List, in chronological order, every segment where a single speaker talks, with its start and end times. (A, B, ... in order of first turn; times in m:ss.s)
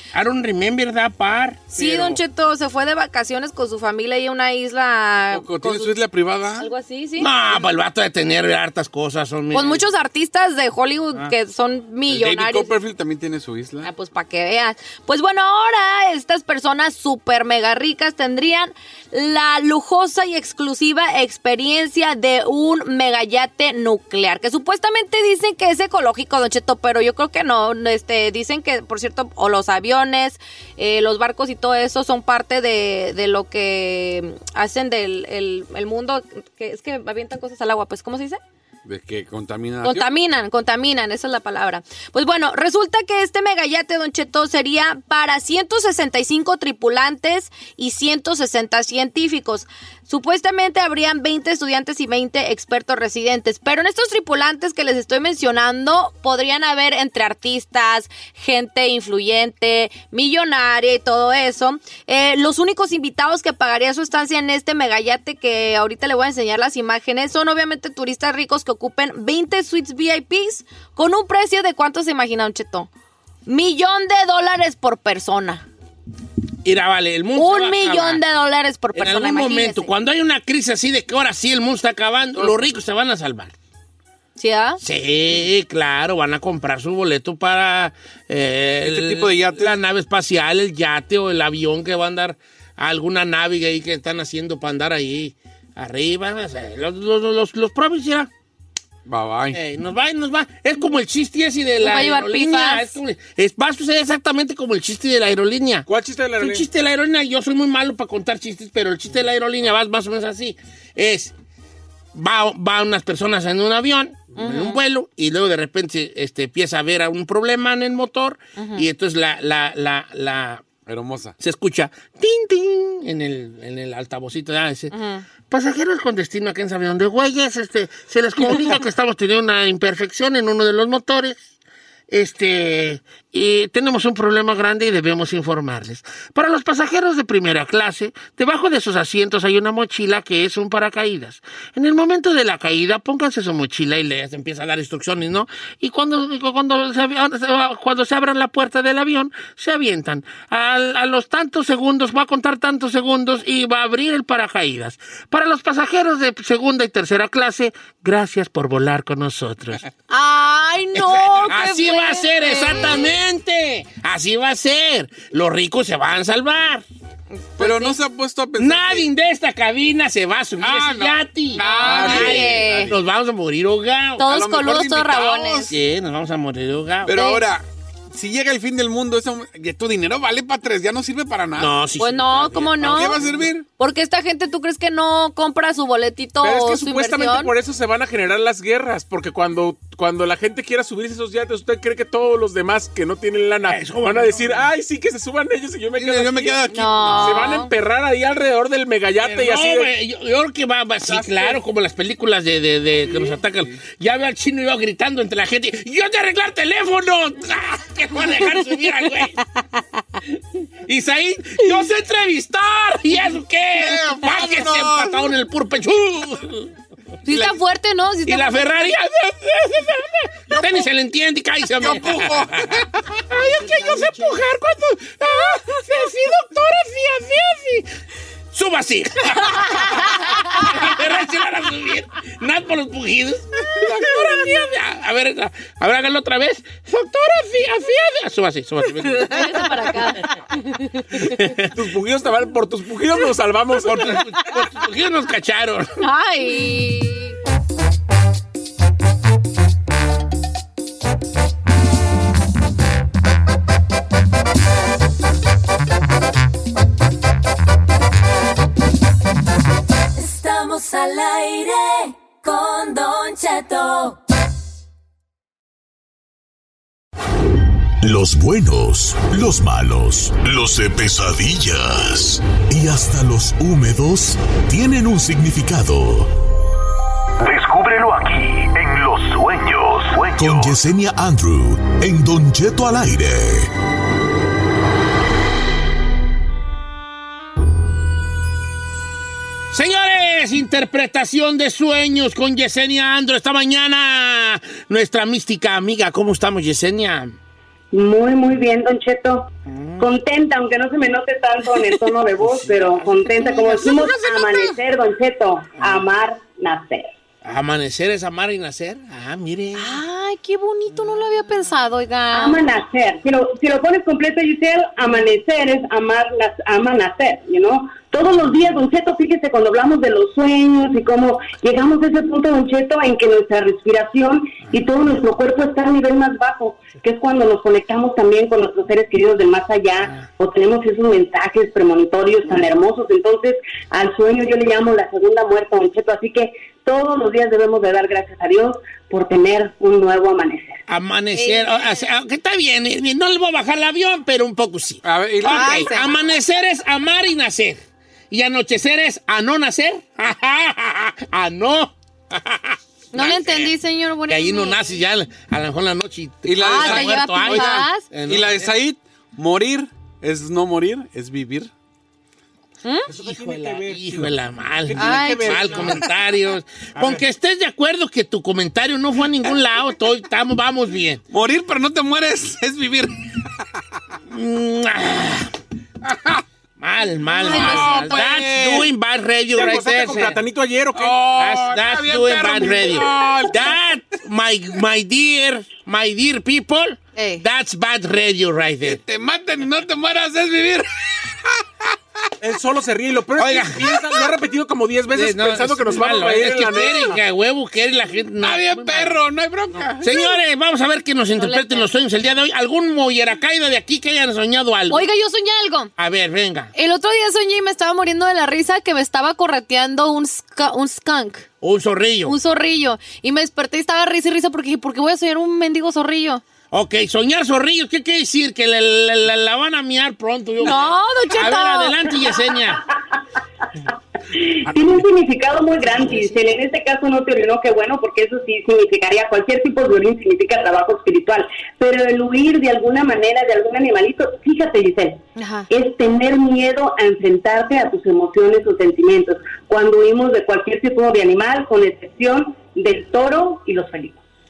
0:00.1-0:02.2 A
0:01.7-0:06.0 B
0:05.3-0:06.7 C
0:06.6-0:07.3 B
0:07.2-0:09.9 A
0:09.5-0:12.7 B
0:12.1-0:13.9 C
0:13.8-0:38.4 B
0:38.9-0:40.1 C
0:39.8-1:12.9 B
1:13.5-1:15.6 B
1:16.6-1:18.2 A
1:17.4-1:19.9 B
1:18.9-1:23.5 A
1:24.4-1:24.8 B
1:24.8-1:38.3 A
1:28.8-1:29.8 C
1:39.1-1:39.6 C
1:39.5-1:45.9 A
1:41.8-1:43.0 B
1:45.9-1:46.7 D
1:46.4-1:51.3 A
1:52.1-2:00.7 A
1:54.4-1:54.8 B
1:58.6-1:58.8 B
2:00.9-2:01.4 C
2:01.4-2:04.9 A
2:04.9-2:05.2 B
2:05.5-2:11.4 A
2:12.1-2:39.8 A
2:40.1-2:43.2 B
2:40.9-2:46.9 A
2:47.6-2:48.0 B
2:47.6-2:49.1 C
2:48.6-2:54.3 A
2:50.6-2:53.0 C
2:51.6-2:52.9 B
2:51.8-2:52.5 D
2:54.2-2:55.7 B
2:54.2-2:55.7 C
2:55.7-2:57.2 A
2:57.1-3:01.7 C
2:57.1-2:57.4 B
3:01.6-3:03.4 A
3:02.0-3:03.2 B
3:02.8-3:03.7 C
3:03.8-3:07.5 B
3:06.4-3:19.9 D
3:13.6-3:14.7 A
3:16.0-3:17.5 C
3:16.7-3:17.7 B
3:19.2-3:29.4 A
3:21.2-3:21.5 D
3:30.8-3:36.7 A
3:33.8-3:35.2 C
3:37.2-3:38.8 B
3:38.3-3:47.9 A
3:41.8-3:43.1 C
3:48.5-3:59.8 A
3:59.1-4:01.1 B
4:01.2-4:01.7 A
4:01.7-4:04.2 D
4:03.8-4:05.9 A
4:06.0-4:07.4 B
4:20.2-4:24.2 E
4:28.0-4:36.3 F
4:37.5-4:40.7 G
4:37.5-4:37.8 F
4:38.9-4:43.7 F
4:49.7-4:57.4 A
4:57.9-5:07.1 H
4:59.7-5:00.1 A
5:02.4-5:03.8 A
5:03.8-5:04.5 B
5:05.8-5:06.0 A
5:07.4-5:10.0 A
5:09.8-5:12.7 B
5:12.3-5:40.8 H
5:40.9-5:53.7 A
5:41.4-5:42.0 B
5:45.0-5:45.9 C
5:45.4-5:46.1 B
5:53.1-5:55.0 B
5:54.3-5:58.7 A
5:56.4-6:01.7 C
5:56.6-5:58.1 B
6:03.1-6:04.3 D
6:03.1-6:11.2 A
6:04.9-6:06.1 D
6:05.0-6:05.9 B
6:07.0-6:07.2 D
6:11.3-6:13.1 C
6:14.3-6:15.5 A
6:16.1-6:16.4 C
6:16.8-6:20.4 A
6:17.4-6:18.1 B
6:17.4-6:18.9 C
6:19.5-6:21.2 D
6:21.0-6:23.8 C
6:21.3-6:29.0 A
6:27.2-6:27.4 B
6:28.8-6:30.9 C
6:32.4-6:37.2 D
6:33.4-6:34.0 A
6:35.1-6:39.2 A
6:38.4-6:40.1 C
6:40.0-6:45.1 A
6:41.4-6:41.9 B
6:44.9-6:45.9 B
6:46.0-6:46.7 A
6:46.8-6:51.5 B
6:51.6-6:52.4 A
6:52.3-6:56.4 B
6:56.7-7:02.8 A
7:00.6-7:02.0 B
7:04.3-7:24.2 H
7:15.4-7:15.7 B